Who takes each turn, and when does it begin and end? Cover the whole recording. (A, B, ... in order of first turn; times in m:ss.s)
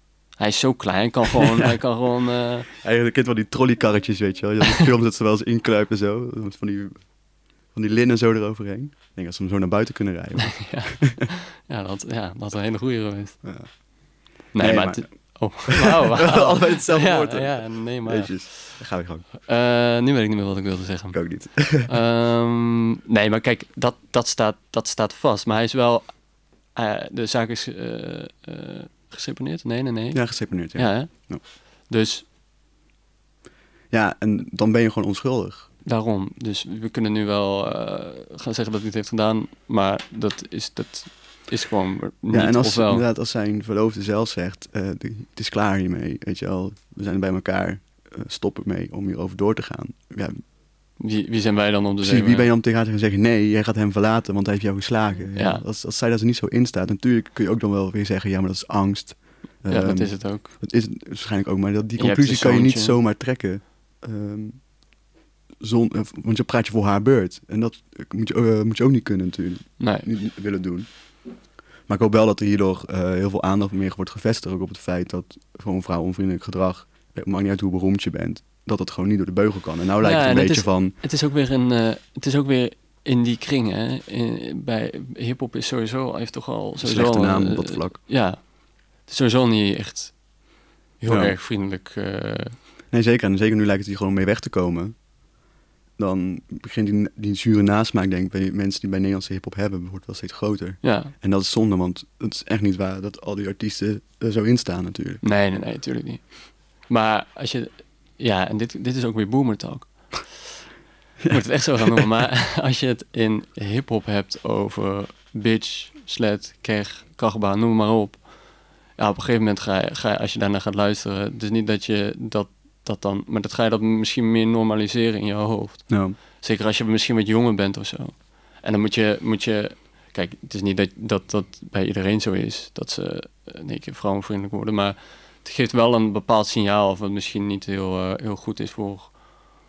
0:00.4-0:02.7 A
0:02.8-0:07.0 B
0:07.7-0:11.3 B
0:10.4-0:13.4 A
0:13.4-0:13.8 B
0:14.5-0:18.8 A
0:14.6-0:19.3 B
0:19.4-0:26.2 A
0:21.1-0:21.9 B
0:26.7-0:31.3 A
0:30.1-0:31.4 B
0:31.9-0:32.2 A
0:33.9-0:35.7 B
0:35.8-0:43.0 A
0:42.3-0:50.4 B
0:51.0-0:52.5 A
0:52.0-1:04.6 B
0:55.4-0:55.6 A
0:59.7-1:00.5 A
1:02.0-1:03.0 A
1:05.6-1:10.9 B
1:09.8-1:10.1 A
1:11.9-1:21.0 B
1:20.0-1:30.2 A
1:26.8-1:28.0 B
1:31.0-1:32.6 A
1:31.1-1:31.3 B
1:32.9-1:35.0 B
1:36.0-1:45.2 B
1:40.8-1:41.1 A
1:45.2-1:50.5 A
1:51.3-1:58.3 A
1:59.0-2:19.2 A
2:05.9-2:06.2 B